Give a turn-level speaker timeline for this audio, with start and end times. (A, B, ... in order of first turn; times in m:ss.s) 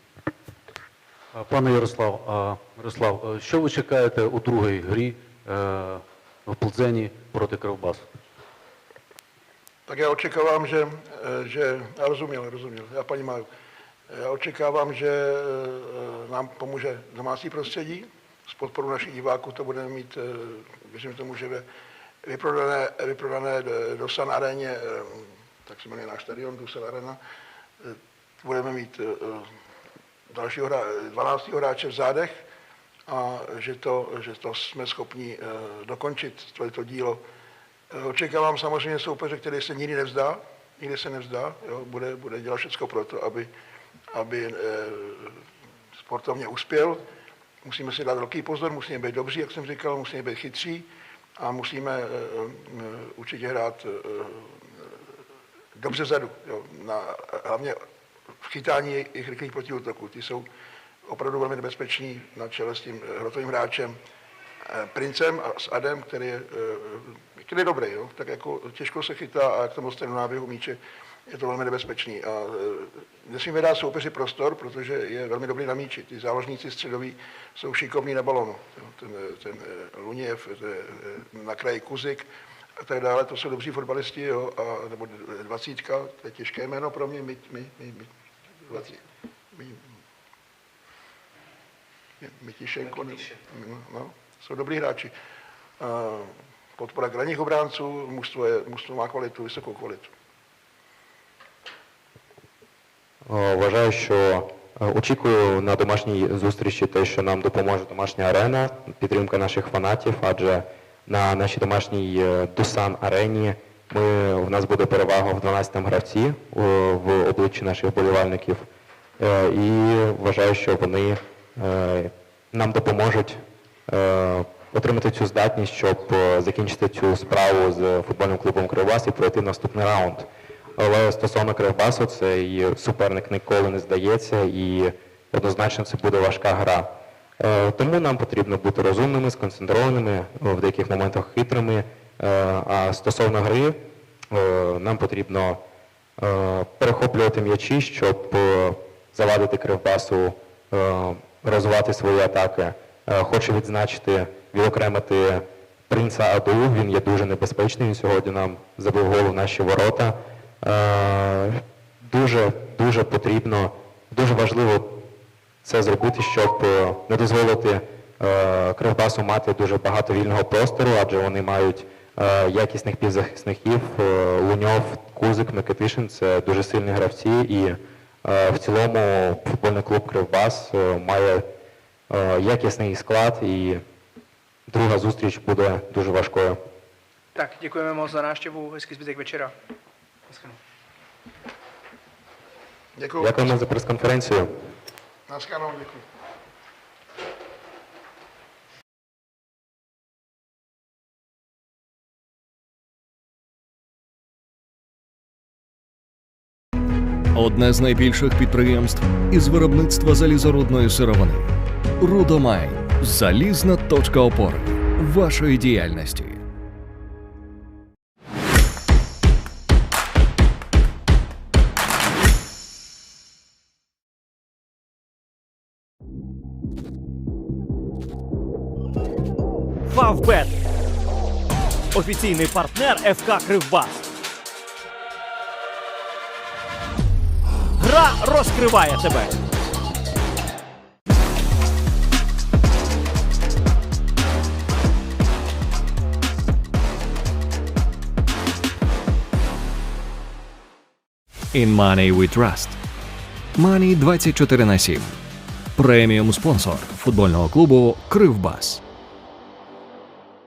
0:01.4-0:08.1 A
0:09.9-0:13.5 B
0:14.1-0:21.6 B
0:22.2-0:27.2 B
0:27.8-0:29.5 B
0:30.3-0:32.4 B
0:33.1-0:37.2 B
0:37.9-0:43.5 B
0:44.1-0:45.4 B
0:46.0-0:47.0 B
0:47.6-0:55.0 B
0:55.8-0:57.8 B
0:58.4-1:00.5 B
1:01.0-1:04.0 B
1:04.6-1:28.1 B
1:28.6-1:29.0 B
1:29.5-1:29.9 B
1:32.2-1:35.1 B
1:35.8-1:40.1 B
1:43.3-1:58.6 C
1:59.2-2:25.6 C
2:26.2-2:45.1 C
2:45.6-3:01.5 C
3:02.1-3:03.8 C
3:04.7-3:06.6 C
3:07.4-3:09.6 D
3:10.3-3:10.6 D
3:13.0-3:13.6 B
3:13.2-3:14.5 C
3:15.3-3:16.1 B
3:27.3-3:36.4 E
3:49.9-3:50.6 F
3:51.9-3:54.1 F
3:57.8-3:59.4 F
4:11.5-4:12.8 E
4:13.6-4:15.2 E
4:15.8-4:18.8 E